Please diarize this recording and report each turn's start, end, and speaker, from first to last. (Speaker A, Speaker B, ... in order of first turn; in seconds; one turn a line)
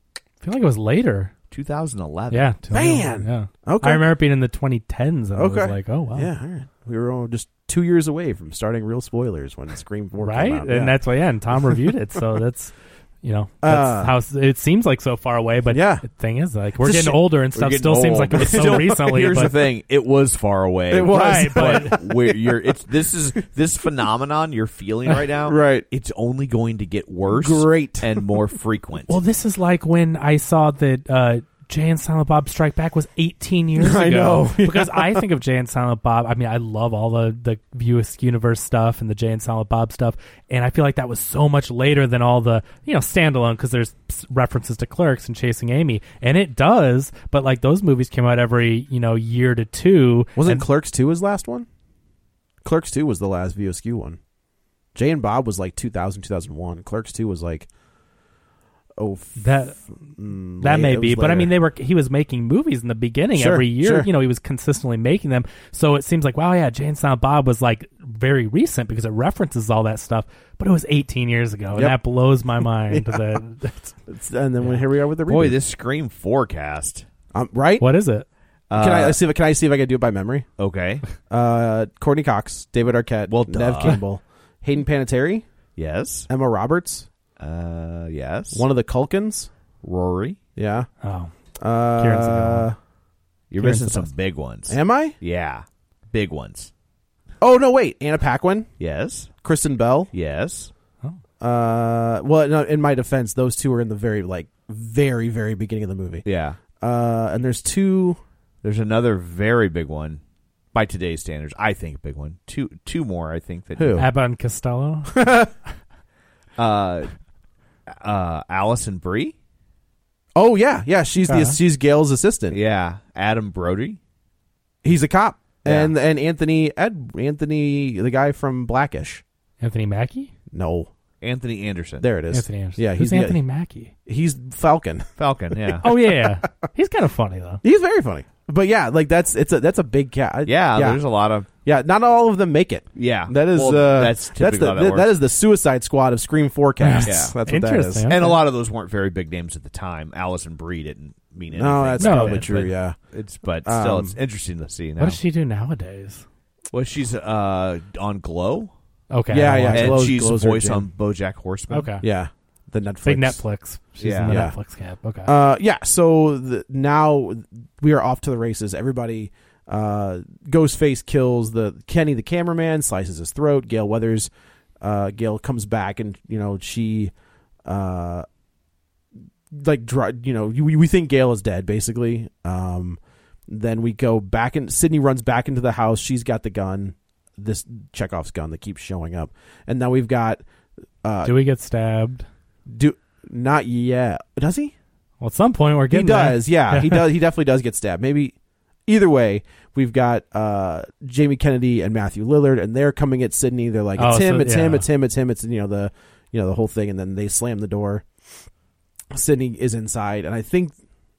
Speaker A: 0.4-1.3
Speaker B: 1.5-2.5
Speaker A: 2.3-6.3
Speaker C: 2.7-4.0
Speaker C: 5.3-10.9
Speaker A: 10.2-19.5
Speaker C: 13.6-14.1
Speaker C: 15.7-16.0
Speaker C: 16.8-17.2
Speaker B: 17.5-29.2
Speaker C: 18.4-19.3
Speaker C: 20.9-22.1
Speaker A: 21.1-22.0
Speaker C: 25.4-25.8
Speaker C: 27.3-28.1
Speaker A: 29.1-50.6
Speaker C: 33.8-35.2
Speaker C: 50.4-51.7
Speaker C: 52.6-54.2
Speaker C: 54.9-57.7
Speaker C: 59.0-61.5
Speaker A: 59.4-59.8
Speaker A: 60.6-73.8
Speaker C: 63.3-64.1
Speaker C: 72.9-73.4
Speaker C: 74.1-75.6
Speaker B: 75.3-77.0
Speaker C: 77.3-77.8
Speaker A: 77.8-78.2
Speaker B: 78.7-79.2
Speaker C: 78.7-80.5
Speaker B: 80.6-81.0
Speaker C: 81.3-85.4
Speaker B: 83.3-84.0
Speaker B: 85.8-86.3
Speaker C: 86.3-87.1
Speaker B: 87.4-88.6
Speaker C: 88.5-89.5
Speaker B: 89.8-90.4
Speaker C: 90.5-90.9
Speaker A: 91.0-91.3
Speaker C: 91.6-92.8
Speaker A: 92.0-92.7
Speaker B: 93.5-96.7
Speaker A: 93.6-94.1
Speaker C: 94.7-95.2
Speaker C: 97.4-98.7
Speaker B: 98.8-99.3
Speaker C: 99.4-100.1
Speaker B: 100.1-100.7
Speaker C: 101.4-106.2
Speaker B: 106.2-106.6
Speaker C: 106.8-108.2
Speaker B: 108.6-110.2
Speaker B: 110.7-114.0
Speaker C: 113.8-114.1
Speaker A: 114.0-115.1
Speaker C: 115.1-115.5
Speaker B: 116.6-117.1
Speaker B: 117.9-119.3
Speaker C: 120.3-122.6
Speaker A: 121.3-121.6
Speaker B: 122.5-124.0
Speaker C: 124.8-129.2
Speaker B: 125.6-125.9
Speaker A: 129.6-130.3
Speaker C: 130.5-130.9
Speaker B: 131.2-132.1
Speaker C: 132.0-133.4
Speaker A: 132.3-133.9
Speaker C: 134.1-135.1
Speaker B: 135.2-135.9
Speaker C: 135.7-136.0
Speaker A: 135.8-137.6
Speaker C: 137.6-141.0
Speaker B: 140.4-141.5
Speaker C: 141.6-148.1
Speaker B: 142.9-145.2
Speaker A: 146.8-148.4
Speaker B: 147.0-147.3
Speaker B: 148.1-155.2
Speaker C: 151.5-152.9
Speaker A: 152.0-152.5
Speaker C: 153.6-154.1
Speaker A: 155.0-156.2
Speaker B: 156.7-158.7
Speaker A: 159.1-160.0
Speaker C: 159.3-160.8
Speaker B: 159.7-161.9
Speaker A: 161.7-162.0
Speaker C: 162.0-163.4
Speaker A: 163.0-165.3
Speaker B: 164.0-164.4
Speaker C: 164.3-164.6
Speaker C: 165.2-174.3
Speaker C: 174.8-177.1
Speaker C: 177.7-178.2
Speaker C: 179.5-183.0
Speaker C: 183.5-190.4
Speaker C: 191.0-191.3
Speaker A: 191.2-192.2
Speaker C: 192.7-194.7
Speaker A: 195.2-197.0
Speaker C: 195.9-198.3
Speaker C: 198.9-208.0
Speaker A: 204.0-204.8
Speaker C: 209.1-210.7